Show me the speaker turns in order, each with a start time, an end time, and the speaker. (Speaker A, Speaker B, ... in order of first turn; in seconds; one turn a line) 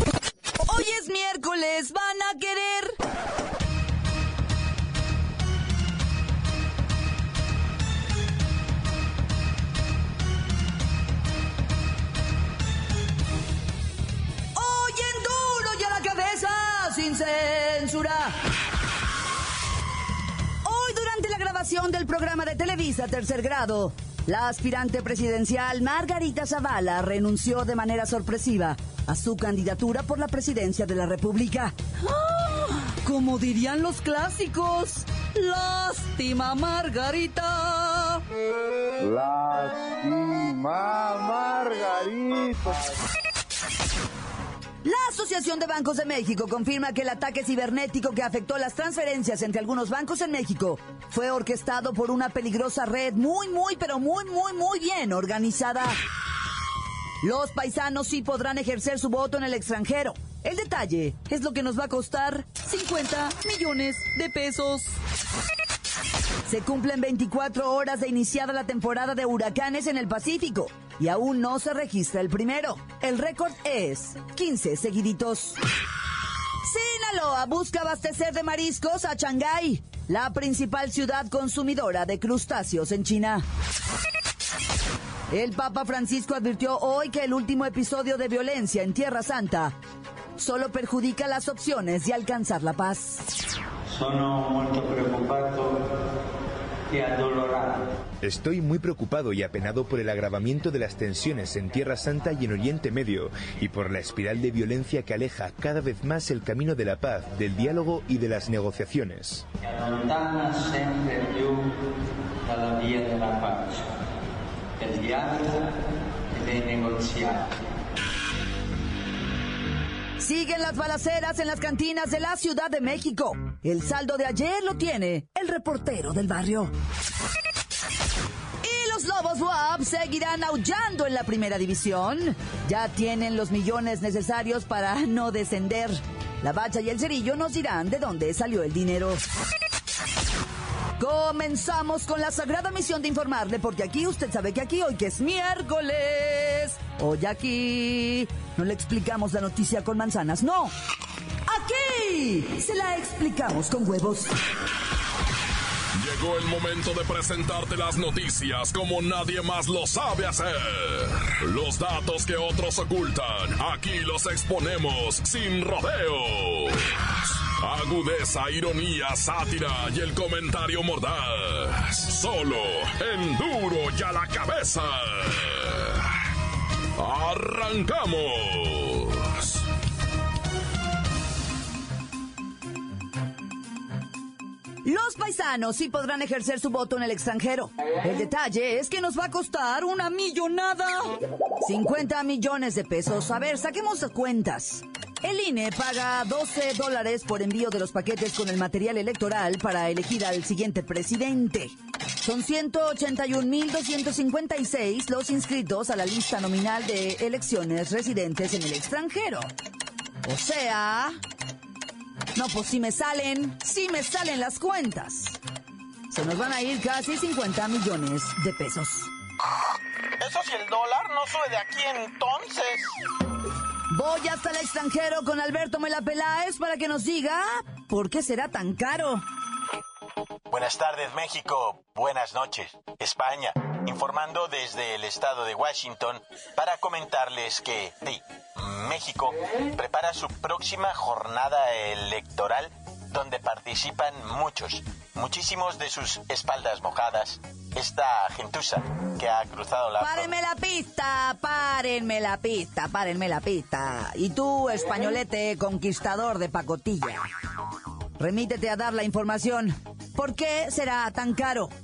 Speaker A: 0.6-3.0
Speaker A: 14.5-18.4
Speaker A: 20.6-38.2
Speaker B: 39.0-42.9
Speaker A: 44.8-56.0
Speaker A: 57.2-65.0
Speaker A: 66.5-75.6
Speaker A: 76.6-83.4
Speaker A: 85.3-89.7
Speaker A: 90.4-93.2
Speaker C: 93.9-95.8
Speaker C: 96.9-97.9
Speaker D: 98.2-109.4
Speaker C: 109.6-111.7
Speaker C: 112.4-113.9
Speaker C: 114.8-115.7
Speaker C: 116.3-117.5
Speaker A: 120.2-126.7
Speaker A: 128.6-139.2
Speaker A: 141.0-150.7
Speaker A: 151.5-154.3
Speaker E: 155.9-176.1
Speaker E: 177.0-179.6
Speaker A: 184.8-209.5
Speaker A: 210.2-211.2
Speaker A: 212.3-215.4
Speaker A: 216.1-219.1
Speaker F: 220.2-222.9
Speaker A: 223.9-229.2
Speaker F: 230.5-250.3
Speaker A: 250.0-257.2
Speaker A: 258.2-261.7